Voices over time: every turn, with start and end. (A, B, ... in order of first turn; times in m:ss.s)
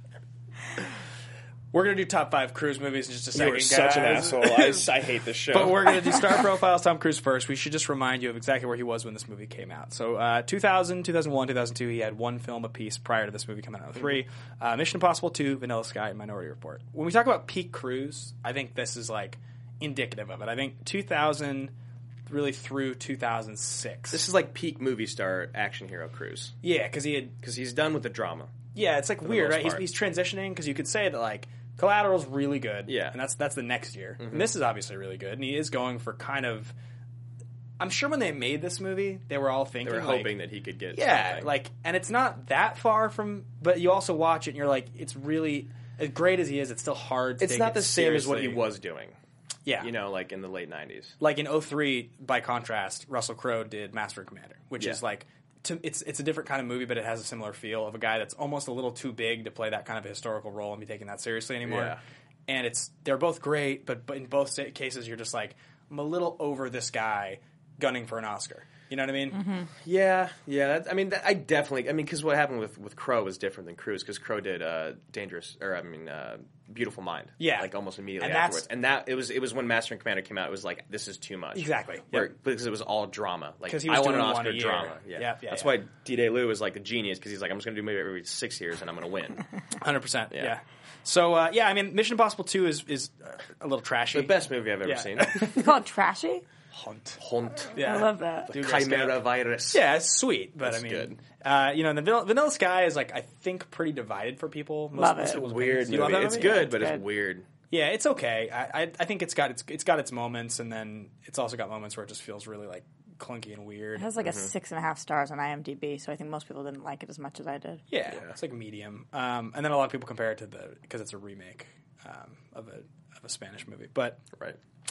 0:01.7-0:04.8 A
0:03.3-0:06.0 B
0:05.5-0:21.7 A
0:22.3-0:24.2 A
0:24.1-0:26.6 B
0:26.6-0:27.4 A
0:27.4-0:28.5 B
0:28.8-0:36.7 A
0:29.2-0:29.9 B
0:32.9-0:33.2 B
0:34.2-0:34.5 B
0:37.8-0:40.4 A
0:39.8-0:41.5 B
0:40.9-0:48.6 A
0:47.4-0:49.2 B
0:49.7-0:49.9 A
0:49.8-0:51.2 B
0:51.2-1:02.0 A
1:01.6-1:02.0 B
1:02.5-1:09.4 A
1:09.3-1:09.7 C
1:09.8-1:29.4 B
1:17.4-1:18.7 A
1:21.6-1:22.3 A
1:23.7-1:25.8 A
1:29.8-1:35.6 A
1:34.1-1:35.7 B
1:35.6-1:36.4 C
1:36.7-1:37.2 A
1:37.2-1:40.0 B
1:37.7-1:46.8 A
1:37.8-1:38.5 C
1:40.6-1:41.2 B
1:45.0-1:45.4 C
1:45.2-1:47.5 B
1:46.0-1:47.0 C
1:47.7-1:54.1 A
1:54.0-1:57.8 C
1:54.2-1:54.5 B
1:57.9-2:04.2 A
1:58.1-1:58.4 B